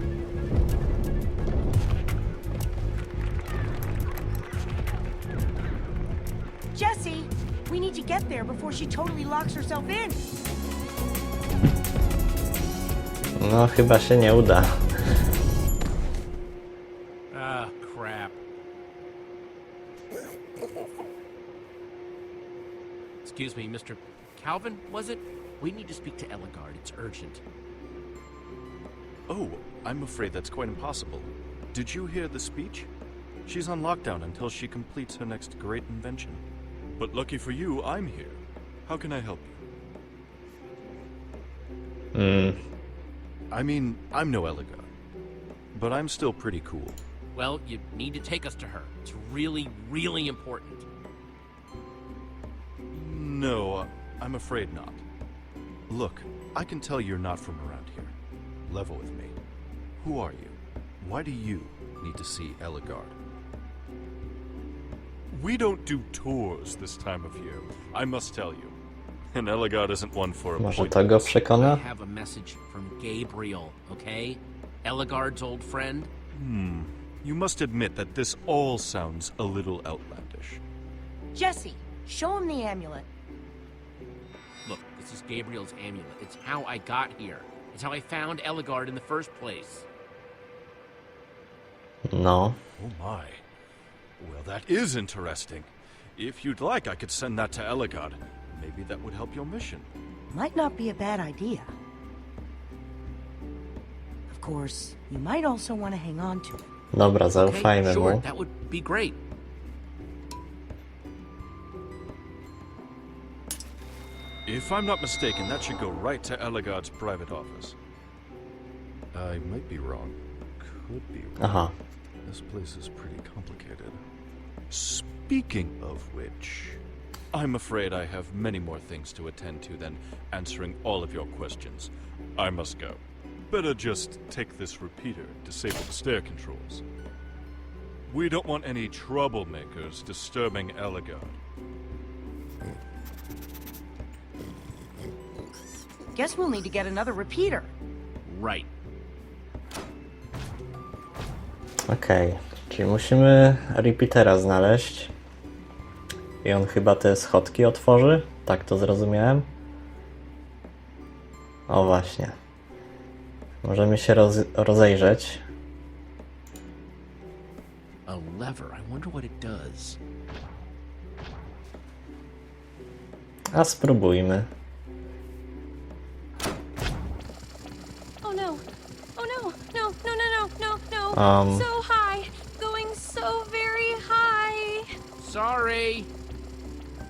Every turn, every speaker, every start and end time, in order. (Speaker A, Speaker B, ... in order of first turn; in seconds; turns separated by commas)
Speaker A: 6.7-10.2, Speaker B: 13.4-14.9, Speaker C: 17.3-18.4, Speaker C: 23.2-27.4, Speaker D: 29.3-32.9, Speaker D: 33.5-36.4, Speaker D: 37.0-39.6, Speaker B: 42.1-42.6, Speaker D: 43.5-44.9, Speaker D: 45.7-47.0, Speaker C: 47.3-50.9, Speaker D: 52.9-55.0, Speaker D: 55.9-58.1, Speaker D: 58.6-59.3, Speaker D: 60.0-63.1, Speaker D: 65.3-68.8, Speaker D: 69.3-71.3, Speaker B: 70.6-71.8, Speaker C: 71.5-76.1, Speaker D: 76.3-80.6, Speaker A: 81.3-83.1, Speaker C: 84.6-89.8, Speaker B: 92.0-92.6, Speaker D: 92.8-93.4, Speaker D: 94.2-99.9, Speaker A: 100.3-101.7, Speaker A: 104.3-106.6, Speaker B: 106.9-108.2, Speaker C: 107.3-109.2, Speaker D: 114.5-117.8, Speaker D: 119.1-121.6, Speaker B: 121.4-121.7, Speaker D: 122.2-124.0, Speaker D: 124.7-126.8, Speaker D: 127.3-136.8, Speaker D: 138.1-141.4, Speaker A: 146.1-147.7, Speaker C: 148.2-148.7, Speaker B: 151.9-155.1, Speaker B: 156.4-159.5, Speaker B: 161.7-162.3, Speaker B: 163.6-165.4, Speaker C: 168.1-170.0, Speaker B: 173.5-174.5, Speaker E: 178.2-178.6, Speaker E: 179.2-184.9, Speaker B: 181.1-181.7, Speaker C: 185.2-186.1